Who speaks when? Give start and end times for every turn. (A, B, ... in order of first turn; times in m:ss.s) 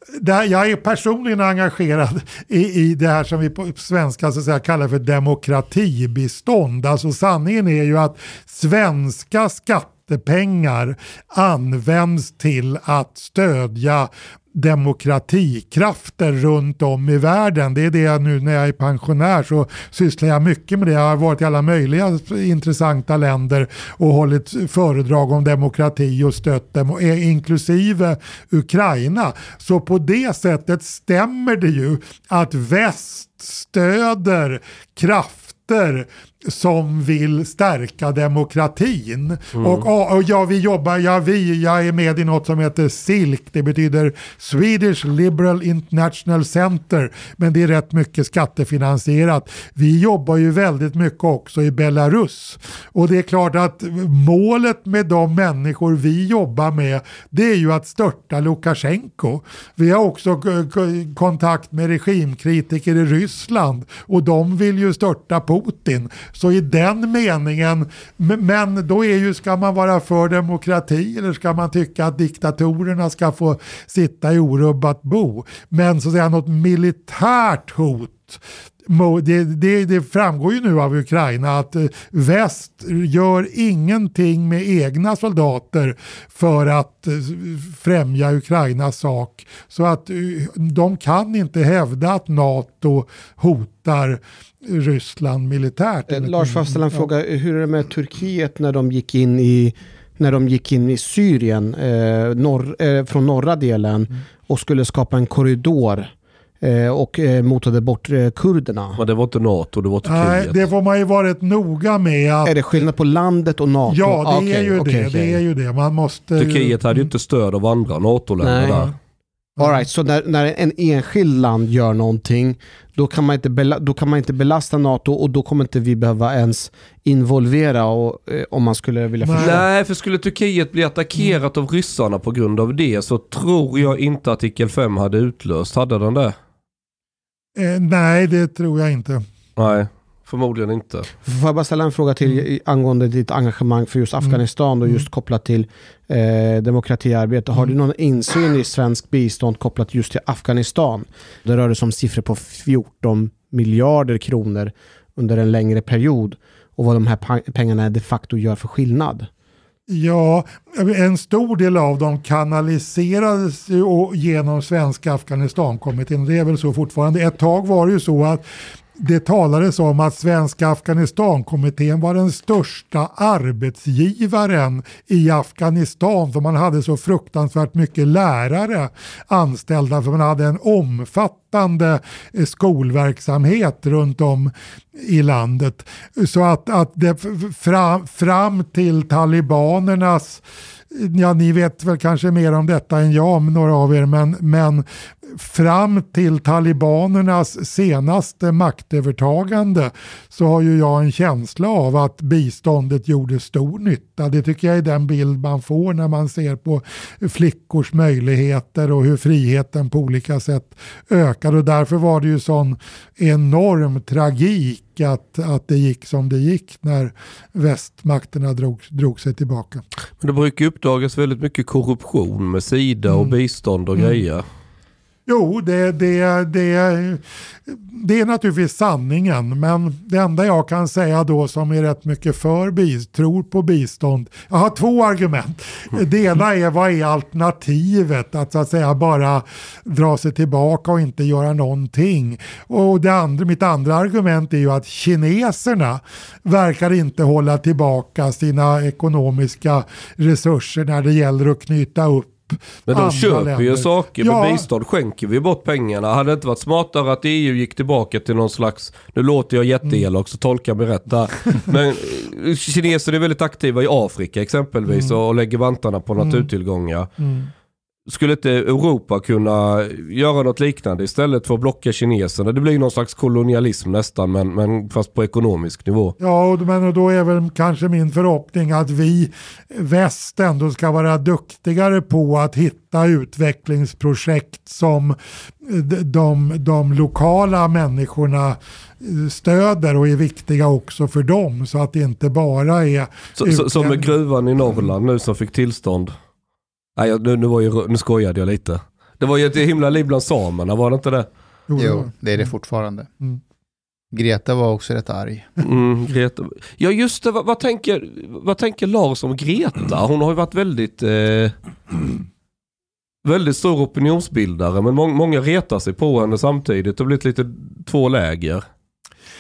0:00.2-1:37.1 A
0:39.6-0:39.9 B
1:36.1-1:49.0 C
1:49.0-1:50.6 B
1:50.0-1:52.5 A
1:52.4-1:55.4 C
1:53.9-1:57.1 A
1:56.4-1:58.9 B
1:58.4-1:58.9 C
1:59.6-1:59.8 A
1:59.6-2:09.6 C
2:09.2-2:09.6 A
2:09.4-2:16.3 B
2:17.6-2:19.2 A
2:19.6-2:21.1 B
2:21.2-2:39.3 C
2:24.2-2:25.1 A
2:39.9-2:48.4 A
2:49.0-3:39.8 A
3:40.2-3:44.4 B
3:43.1-3:43.3 A
3:43.9-3:44.2 A
3:45.3-4:14.7 A
4:12.9-4:27.1 B
4:24.9-4:25.2 A
4:26.2-4:26.5 A
4:27.2-4:27.5 A
4:28.1-4:36.1 B
4:36.2-4:54.2 A
4:53.4-4:56.1 B
4:57.0-5:01.2 B
5:01.7-5:02.5 A
5:01.8-5:03.1 D
5:04.1-5:05.5 D
5:05.6-5:11.5 B
5:13.2-5:18.6 B